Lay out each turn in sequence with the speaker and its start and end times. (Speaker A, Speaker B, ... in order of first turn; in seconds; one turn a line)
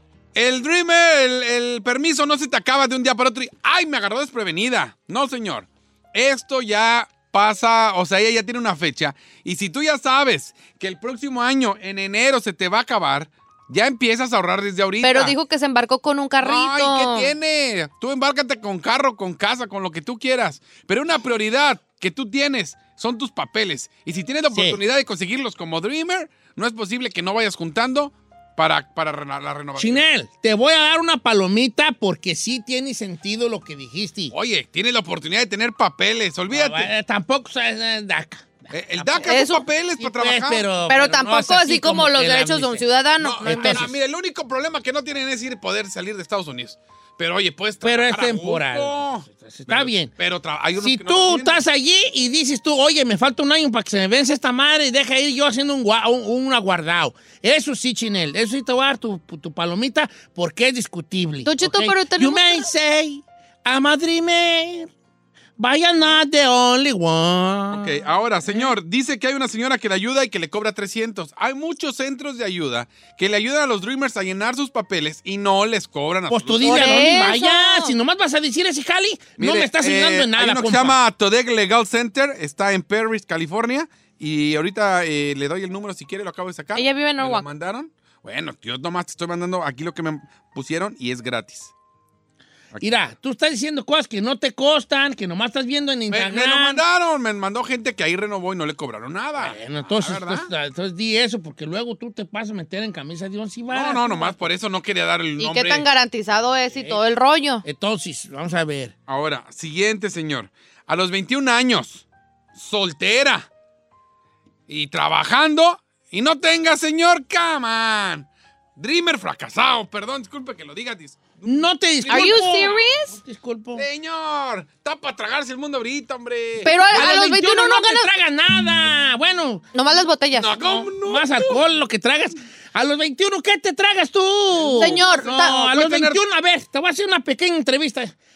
Speaker A: 0.3-15.3
Speaker B: 15.0-17.3
Speaker A: 16.4-30.0
Speaker C: 24.5-24.8
Speaker C: 29.8-34.3
Speaker A: 34.3-36.9
Speaker C: 36.5-39.5
Speaker A: 38.7-40.7
Speaker B: 39.2-39.6
Speaker C: 40.0-42.8
Speaker B: 40.9-43.9
Speaker A: 43.2-51.6
Speaker C: 43.4-43.9
Speaker C: 47.8-50.1
Speaker C: 50.8-64.9
Speaker B: 61.4-62.7
Speaker C: 65.6-68.0
Speaker A: 67.7-77.2
Speaker C: 76.3-81.0
Speaker B: 76.6-77.9
Speaker A: 79.4-91.7
Speaker B: 86.7-87.4
Speaker C: 92.8-96.8
Speaker A: 96.1-100.5
Speaker C: 99.4-104.4
Speaker A: 103.7-105.8
Speaker B: 105.4-107.6
Speaker C: 106.7-107.0
Speaker C: 107.6-108.9
Speaker A: 109.1-113.5
Speaker A: 114.7-122.7
Speaker C: 121.4-123.8
Speaker B: 122.1-123.2
Speaker A: 123.8-126.7
Speaker B: 126.6-128.1
Speaker C: 126.6-129.6
Speaker B: 129.7-130.8
Speaker A: 130.3-131.6
Speaker C: 130.9-138.1
Speaker B: 134.7-135.6
Speaker A: 135.3-136.2